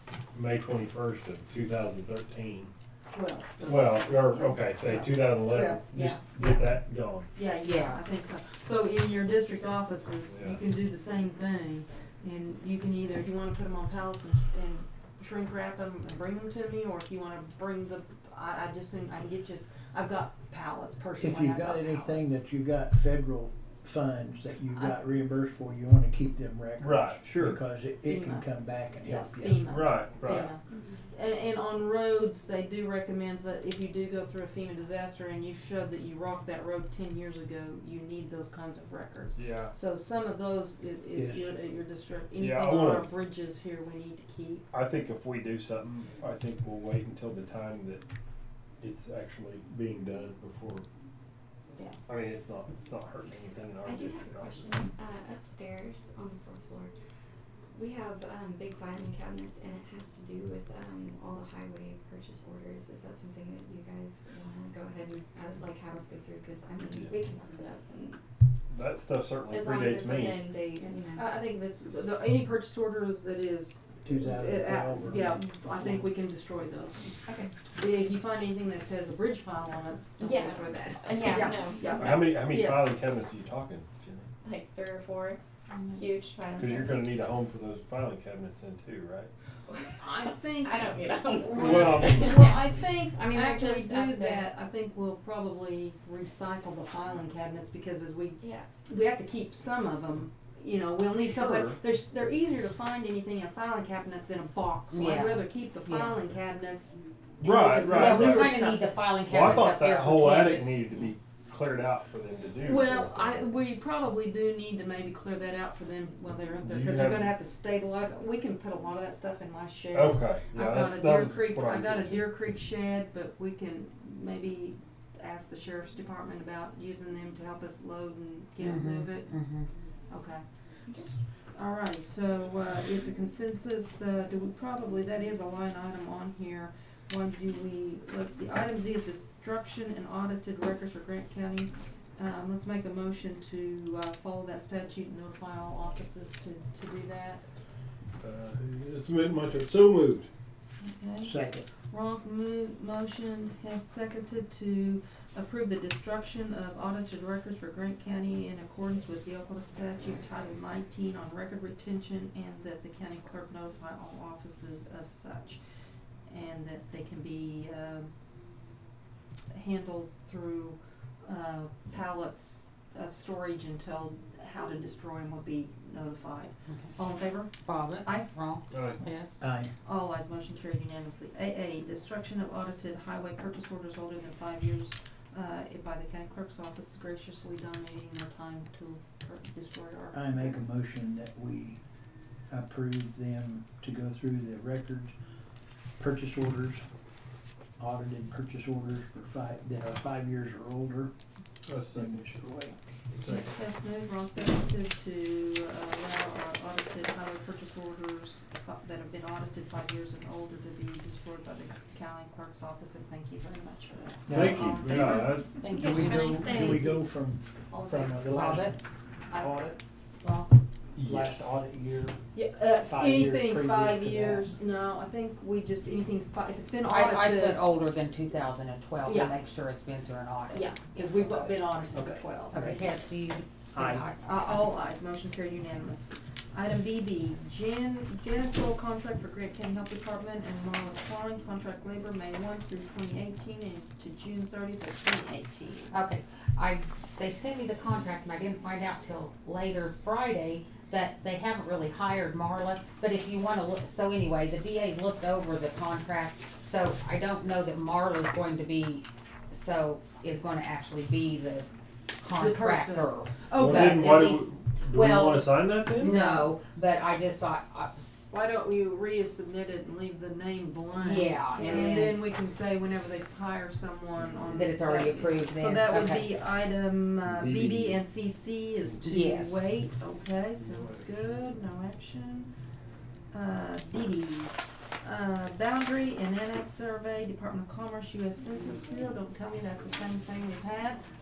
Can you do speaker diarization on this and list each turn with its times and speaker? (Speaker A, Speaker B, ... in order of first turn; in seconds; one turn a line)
Speaker A: 0.3-2.7
Speaker B: 3.1-6.8
Speaker A: 3.6-7.3
Speaker B: 7.3-22.3
Speaker C: 7.6-8.0
Speaker A: 10.3-10.6
Speaker D: 21.2-29.9
Speaker B: 24.7-25.0
Speaker A: 26.8-27.6
Speaker B: 28.0-44.6
Speaker A: 29.7-30.5
Speaker A: 39.4-39.7
Speaker D: 41.1-41.6
Speaker A: 42.4-43.1
Speaker A: 44.7-48.0
Speaker A: 48.8-50.9
Speaker A: 52.1-54.8
Speaker E: 53.8-56.9
Speaker E: 57.7-68.2
Speaker A: 68.7-70.4
Speaker E: 69.5-71.3
Speaker B: 71.1-77.2
Speaker D: 74.0-75.4
Speaker E: 77.2-77.5
Speaker B: 77.7-82.9
Speaker E: 80.2-82.1
Speaker A: 81.9-84.3
Speaker E: 84.4-85.4
Speaker B: 85.7-86.0
Speaker E: 86.0-87.2
Speaker A: 86.6-89.3
Speaker E: 89.7-94.5
Speaker B: 90.0-90.9
Speaker A: 91.5-92.5
Speaker B: 91.5-108.8
Speaker E: 98.4-98.7
Speaker A: 101.2-101.8
Speaker C: 104.9-106.2
Speaker A: 107.4-108.6
Speaker C: 107.9-110.9
Speaker A: 109.2-113.4
Speaker B: 112.6-129.3
Speaker A: 116.6-117.3
Speaker A: 119.9-122.3
Speaker C: 128.6-129.7
Speaker B: 130.1-147.4
Speaker A: 148.2-150.3
Speaker B: 150.8-165.6
Speaker D: 151.2-151.7
Speaker B: 166.3-168.1
Speaker B: 169.5-178.3
Speaker C: 177.6-179.4
Speaker A: 178.7-179.0
Speaker D: 179.4-179.7
Speaker B: 179.8-190.6
Speaker D: 190.1-191.8
Speaker D: 192.5-195.1
Speaker D: 196.0-196.8
Speaker D: 197.8-201.1
Speaker A: 201.7-202.3
Speaker D: 201.9-202.8
Speaker A: 203.1-203.5
Speaker B: 203.2-215.2
Speaker D: 214.3-218.8
Speaker A: 214.3-215.5
Speaker E: 215.1-217.0
Speaker C: 215.6-216.5
Speaker B: 217.7-218.3
Speaker C: 218.3-218.8
Speaker D: 219.3-219.8
Speaker C: 220.2-220.5
Speaker A: 220.9-221.5
Speaker D: 221.0-222.2
Speaker B: 222.3-227.6
Speaker D: 222.8-224.5
Speaker C: 226.8-231.1
Speaker B: 229.0-229.4
Speaker B: 230.5-232.9
Speaker D: 231.9-232.2
Speaker C: 232.5-234.6
Speaker D: 233.7-234.0
Speaker B: 234.2-245.9
Speaker C: 245.9-261.7
Speaker C: 262.2-267.9
Speaker B: 262.3-264.3
Speaker A: 263.5-266.1
Speaker B: 266.0-266.5
Speaker B: 268.3-282.5
Speaker C: 270.9-272.2
Speaker C: 274.5-276.3
Speaker A: 277.2-278.0
Speaker C: 279.0-279.6
Speaker A: 280.6-281.1
Speaker B: 283.3-291.0